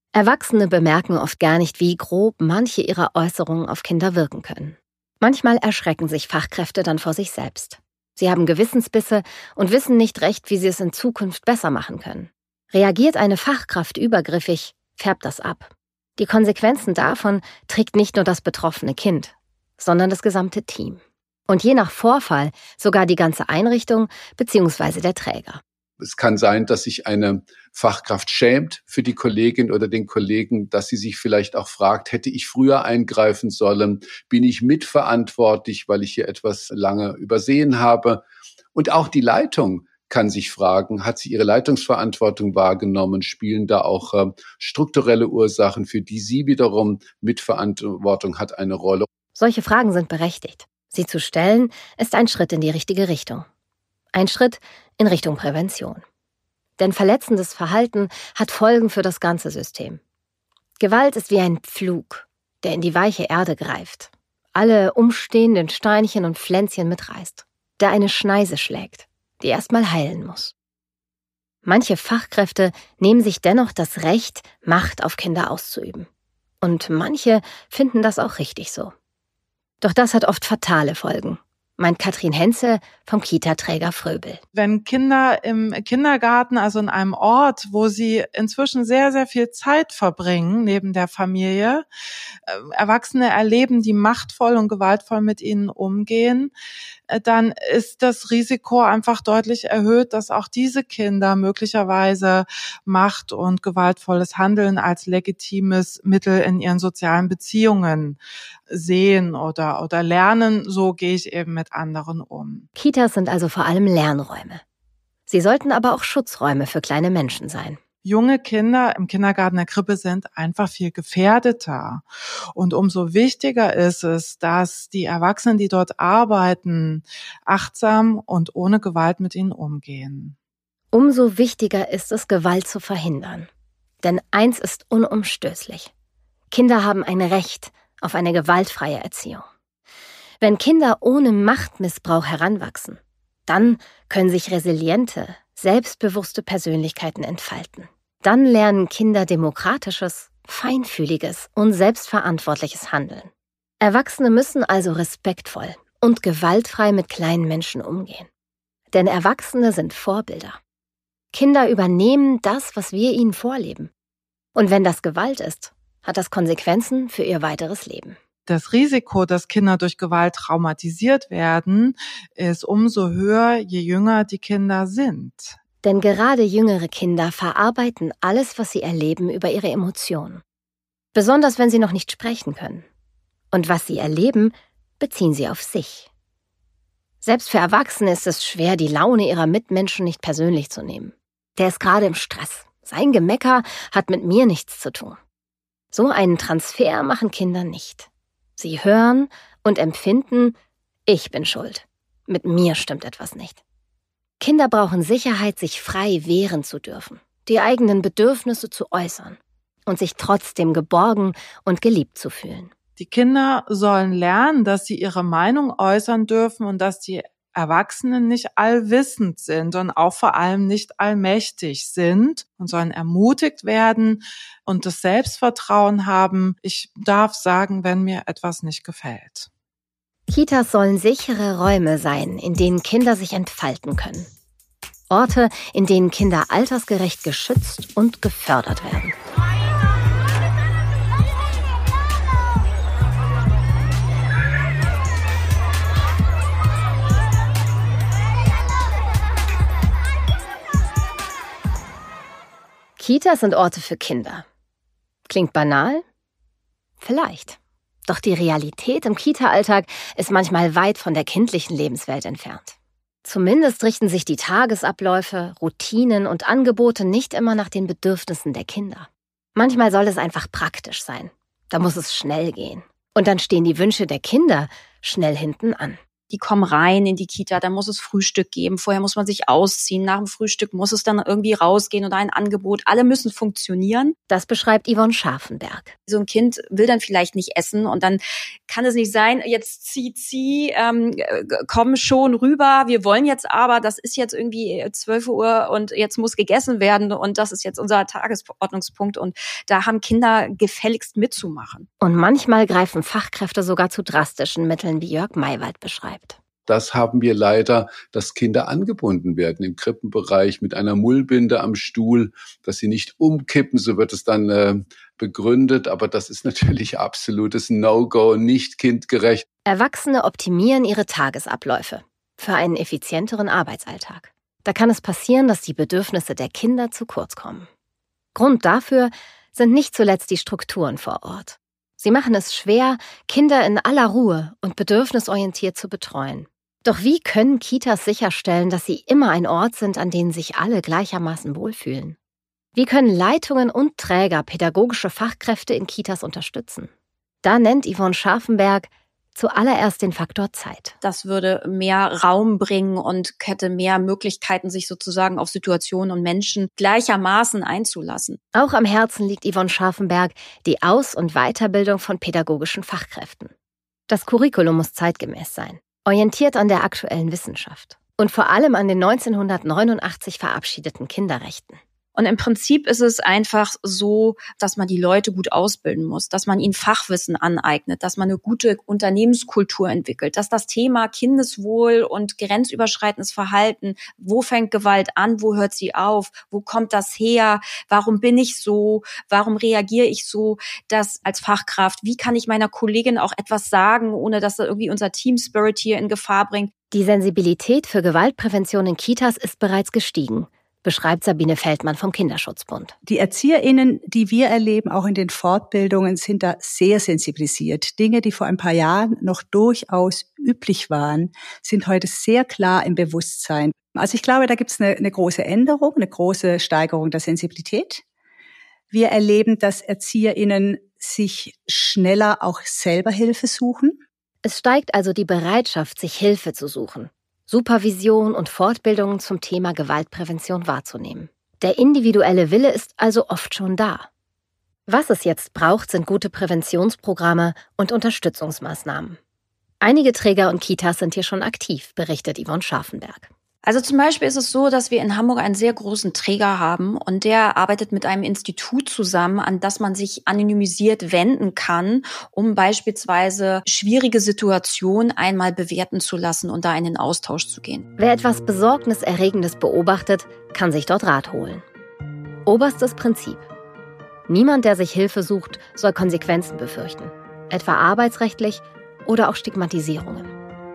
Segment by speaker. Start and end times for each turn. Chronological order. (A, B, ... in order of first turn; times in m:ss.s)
0:00.1-0:25.6 A
0:26.0-0:49.1 B
0:49.4-0:53.5 A
0:54.1-0:56.0 A
0:56.8-1:00.0 A
1:00.8-1:10.5 A
1:11.6-1:16.1 A
1:16.6-1:18.9 A
1:19.8-1:24.4 A
1:24.6-1:31.8 C
1:32.5-1:36.5 C
1:37.1-1:48.2 C
1:48.7-1:52.7 C
1:52.8-1:54.6 A
1:55.3-1:57.8 A
1:58.0-2:10.4 C
2:10.9-2:13.5 A
2:14.0-2:15.9 A
2:16.5-2:19.5 A
2:20.4-2:33.3 A
2:33.8-2:38.3 A
2:38.9-2:40.6 A
2:41.3-2:43.9 A
2:44.6-2:48.2 A
2:48.5-2:55.6 C
2:55.8-3:00.4 A
3:01.1-3:02.8 A
3:03.5-3:06.1 A
3:07.2-3:15.2 A
3:15.9-3:20.6 A
3:21.1-3:23.6 A
3:24.4-3:32.7 A
3:33.0-3:49.5 C
3:50.3-3:54.3 A
3:55.1-3:59.2 A
4:13.0-4:14.4 A
4:15.3-4:16.0 A
4:17.0-4:36.0 A
4:36.3-4:44.2 D
4:44.3-4:45.9 A
4:46.1-5:01.9 D
5:02.0-5:06.4 A
5:06.7-5:19.5 B
5:19.7-5:27.7 A
5:28.4-5:42.2 A
5:42.8-5:46.9 A
5:47.4-5:51.0 A
5:51.0-5:58.4 D
5:58.5-6:03.5 A
6:04.1-6:11.8 A
6:12.2-6:36.7 D
6:36.9-6:43.0 A
6:43.1-6:58.0 E
6:58.9-7:04.0 E
7:04.4-7:14.1 A
7:14.9-7:19.2 A
7:19.8-7:23.3 A
7:23.6-7:37.9 D
7:38.0-7:41.6 A
7:42.5-7:43.5 A
7:44.3-7:50.3 A